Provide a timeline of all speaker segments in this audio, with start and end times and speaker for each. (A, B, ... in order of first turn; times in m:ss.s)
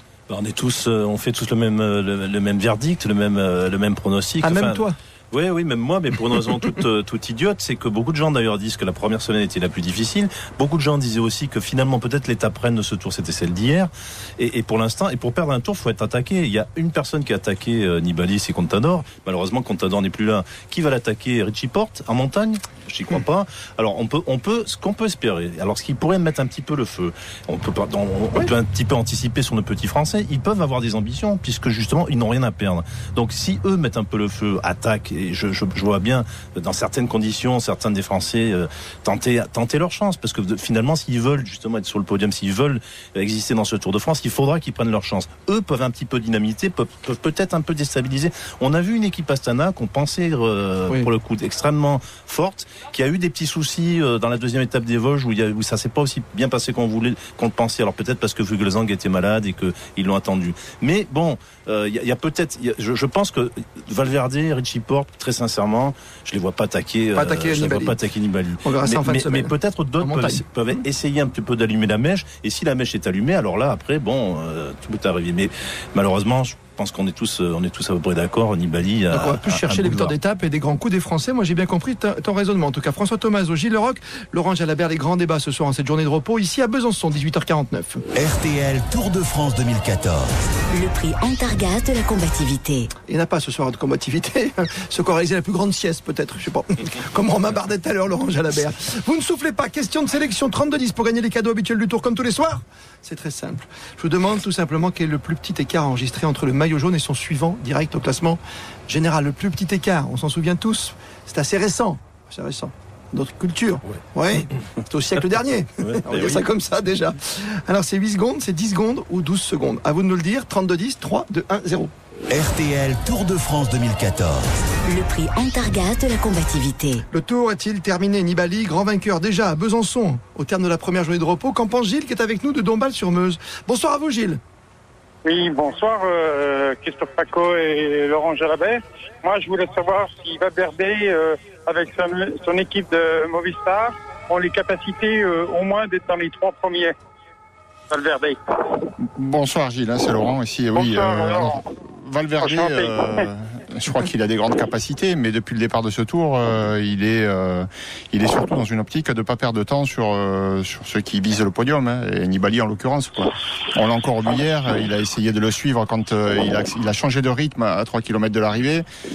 0:00.3-1:20.1 A
0:04.4-0:04.9 B
1:07.1-1:08.0 B
1:08.6-1:10.4 B
1:19.1-1:28.0 B
1:28.1-1:30.3 C
1:30.7-1:32.9 D
1:33.1-2:01.9 B
1:55.9-1:56.4 A
2:02.3-2:04.5 C
2:04.8-2:07.0 D
2:07.1-2:14.4 B
2:15.2-2:26.9 E
2:27.9-2:28.4 E
2:29.0-2:48.8 F
2:30.8-2:31.6 E
2:32.4-2:33.0 E